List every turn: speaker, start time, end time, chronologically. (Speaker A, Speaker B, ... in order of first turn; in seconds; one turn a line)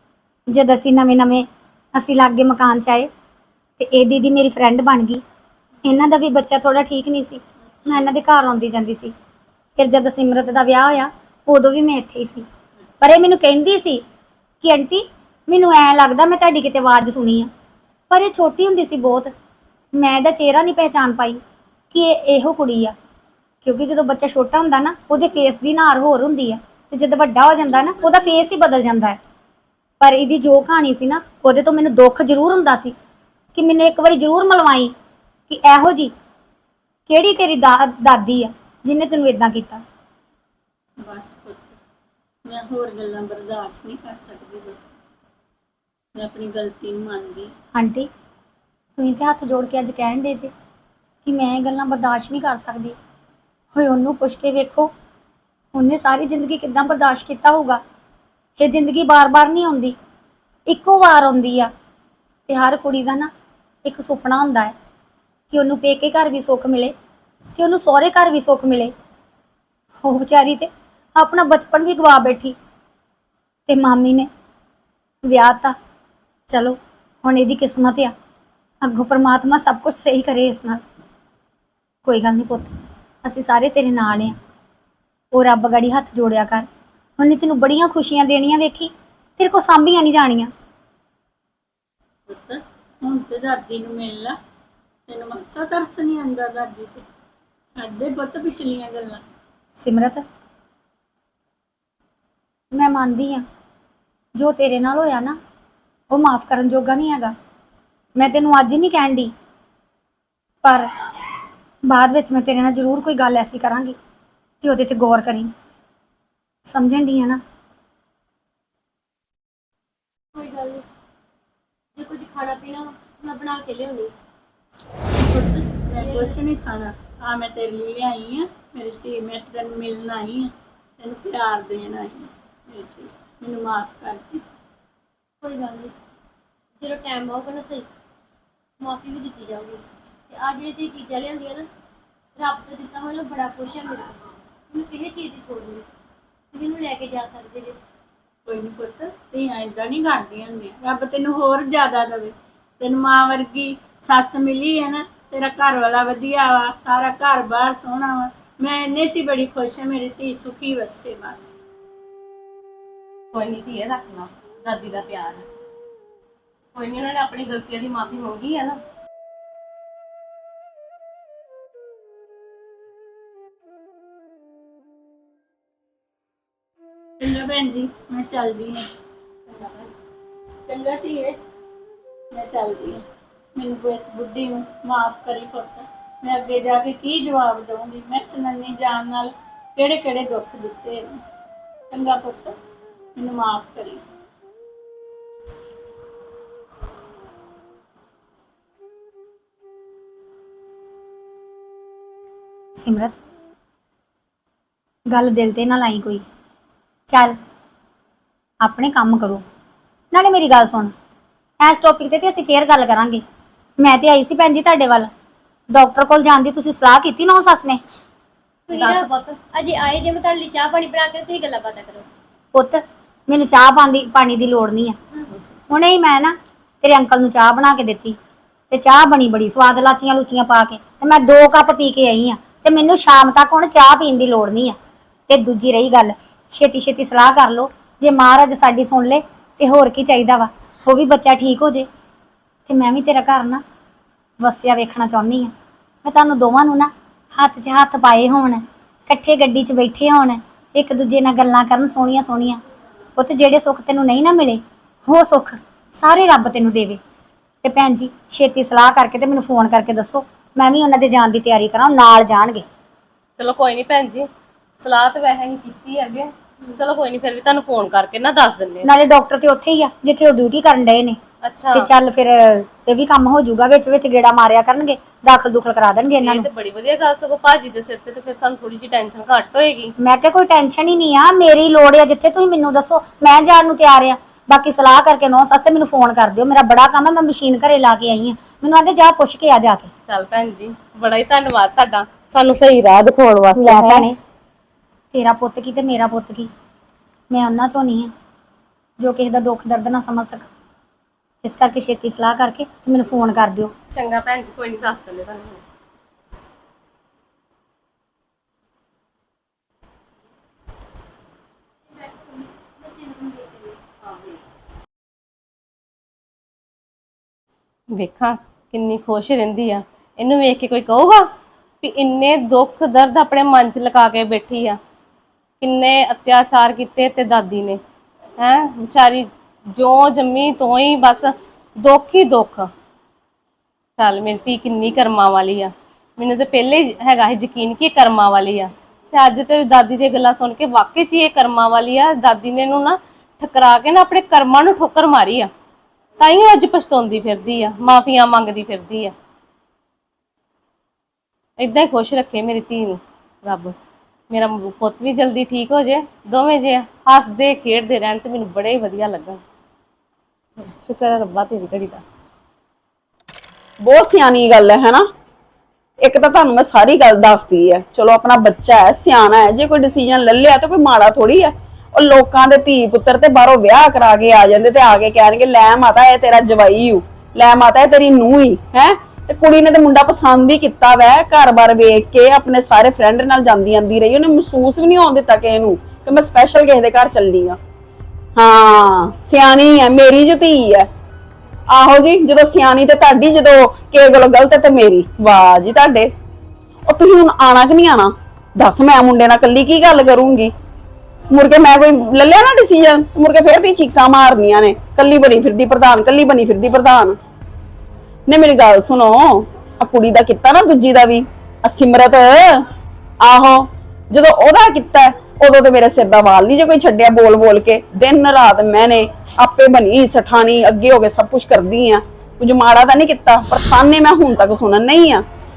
Speaker A: 0.5-3.1
Speaker A: 3.8-5.2
Speaker A: 5.8-9.1
Speaker A: 9.8-12.4
Speaker A: 13.0-14.0
Speaker A: 14.6-17.5
Speaker A: 18.1-19.3
Speaker A: 19.9-21.4
Speaker A: 21.9-22.9
Speaker A: 23.6-29.2
Speaker A: 30.0-32.9
Speaker A: 33.5-34.9
Speaker A: 35.5-36.1
Speaker A: 37.1-39.8
Speaker B: 41.0-41.8
Speaker B: 42.5-44.8
Speaker B: 46.1-47.5
Speaker A: 47.7-48.1
Speaker A: 49.0-50.5
Speaker A: 51.2-53.0
Speaker A: 53.7-54.9
Speaker A: 55.7-57.8
Speaker A: 58.6-60.0
Speaker A: 60.7-61.7
Speaker A: 62.5-63.3
Speaker A: 63.8-64.7
Speaker A: 65.5-66.9
Speaker A: 67.5-68.9
Speaker A: 70.0-72.5
Speaker A: 73.7-74.3
Speaker A: 75.2-75.8
Speaker A: 76.5-78.1
Speaker A: 78.8-80.8
Speaker A: 82.0-84.3
Speaker A: 85.3-90.5
Speaker B: 92.3-94.4
Speaker B: 95.1-97.0
Speaker B: 97.8-99.2
Speaker A: 99.8-100.2
Speaker A: 102.7-103.4
Speaker A: 104.4-105.4
Speaker A: 106.1-107.3
Speaker A: 108.2-109.3
Speaker A: 110.6-110.9
Speaker A: 111.8-114.0
Speaker A: 114.6-115.5
Speaker A: 116.7-117.4
Speaker C: 120.3-120.8
Speaker C: 122.0-124.1
Speaker B: 125.2-134.4
Speaker C: 126.0-126.4
Speaker C: 135.4-135.9
Speaker C: 136.8-137.9
Speaker C: 138.8-141.7
Speaker C: 142.4-145.8
Speaker C: 146.5-147.8
Speaker B: 148.4-161.5
Speaker D: 163.3-165.4
Speaker D: 166.7-168.8
Speaker B: 177.2-178.9
Speaker B: 180.7-181.4
Speaker B: 182.3-183.0
Speaker B: 183.6-191.2
Speaker B: 191.9-192.6
Speaker B: 193.2-194.0
Speaker A: 202.8-203.2
Speaker A: 205.1-206.2
Speaker A: 207.1-207.3
Speaker A: 208.6-209.4
Speaker A: 210.1-210.9
Speaker A: 211.6-213.2
Speaker A: 213.8-215.1
Speaker A: 215.7-217.8
Speaker C: 218.7-222.1
Speaker D: 218.7-219.4
Speaker A: 222.5-224.9
Speaker A: 225.7-228.2
Speaker A: 228.7-234.8
Speaker A: 235.3-241.9
Speaker A: 242.7-243.6
Speaker A: 244.4-245.5
Speaker A: 246.0-252.6
Speaker A: 253.2-257.0
Speaker A: 257.6-262.6
Speaker D: 263.4-268.9
Speaker A: 268.8-271.2
Speaker D: 271.4-271.9
Speaker A: 271.7-276.5
Speaker D: 276.2-279.9
Speaker A: 280.0-289.9
Speaker D: 290.1-294.1
Speaker A: 293.5-294.2
Speaker A: 295.1-296.5
Speaker A: 297.3-298.1
Speaker A: 299.0-300.5
Speaker A: 301.4-303.7
Speaker D: 303.9-305.6
Speaker C: 311.9-313.8
Speaker D: 317.9-321.3
Speaker D: 321.8-324.8
Speaker D: 325.6-327.8
Speaker D: 328.4-332.7
Speaker D: 334.0-345.5
Speaker D: 346.2-349.1
Speaker D: 351.6-353.7
Speaker D: 354.3-359.4
Speaker D: 360.6-362.0
Speaker E: 363.8-365.1
Speaker E: 366.0-387.6
Speaker E: 388.4-390.9
Speaker E: 391.7-396.1
Speaker E: 396.9-400.5
Speaker E: 401.3-407.2
Speaker E: 408.3-412.7
Speaker E: 413.2-425.2